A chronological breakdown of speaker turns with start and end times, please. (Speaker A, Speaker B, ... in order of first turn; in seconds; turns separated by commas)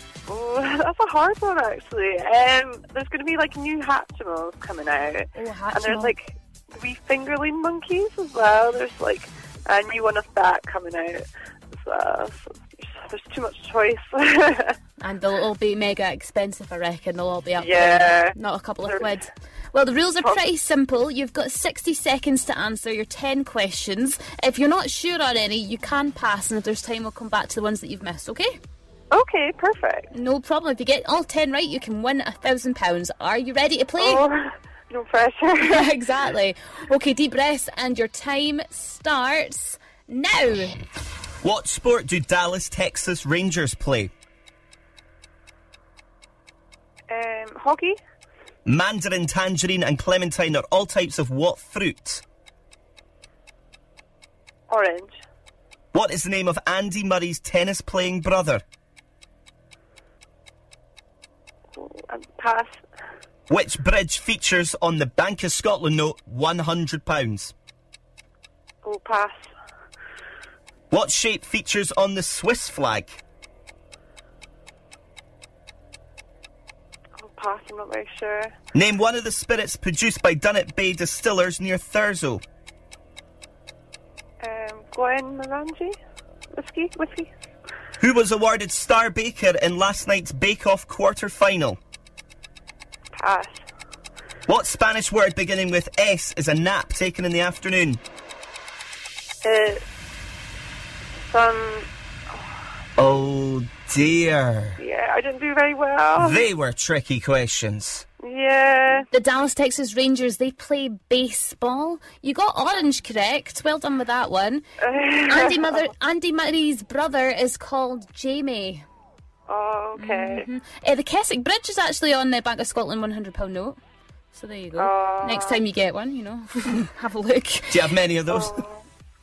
Speaker A: 0.3-14.8, Speaker B: 5.3-6.1, Speaker B: 15.0-28.5, Speaker A: 17.6-19.0, Speaker A: 29.1-30.1, Speaker B: 30.1-34.3, Speaker A: 34.0-36.0, Speaker B: 35.6-40.8, Speaker C: 41.4-44.1, Speaker A: 47.1-48.0, Speaker C: 48.7-52.2, Speaker A: 54.7-55.1, Speaker C: 55.9-58.6, Speaker A: 61.8-62.7, Speaker C: 63.5-67.5, Speaker A: 68.8-69.4, Speaker C: 70.9-73.2, Speaker A: 77.2-78.5, Speaker C: 78.7-82.4, Speaker A: 84.4-86.0, Speaker A: 86.5-87.3, Speaker C: 88.0-91.8, Speaker A: 93.2-93.5, Speaker C: 94.5-98.0, Speaker A: 99.4-99.8, Speaker A: 101.3-102.5, Speaker C: 103.0-104.8, Speaker A: 104.8-106.5, Speaker C: 106.2-108.0, Speaker A: 108.2-109.1, Speaker B: 109.1-114.6, Speaker A: 114.8-115.9, Speaker B: 115.3-118.8, Speaker A: 119.5-120.5, Speaker B: 120.0-123.8, Speaker B: 124.3-127.8, Speaker A: 124.8-125.6, Speaker C: 127.7-128.6, Speaker A: 128.3-128.8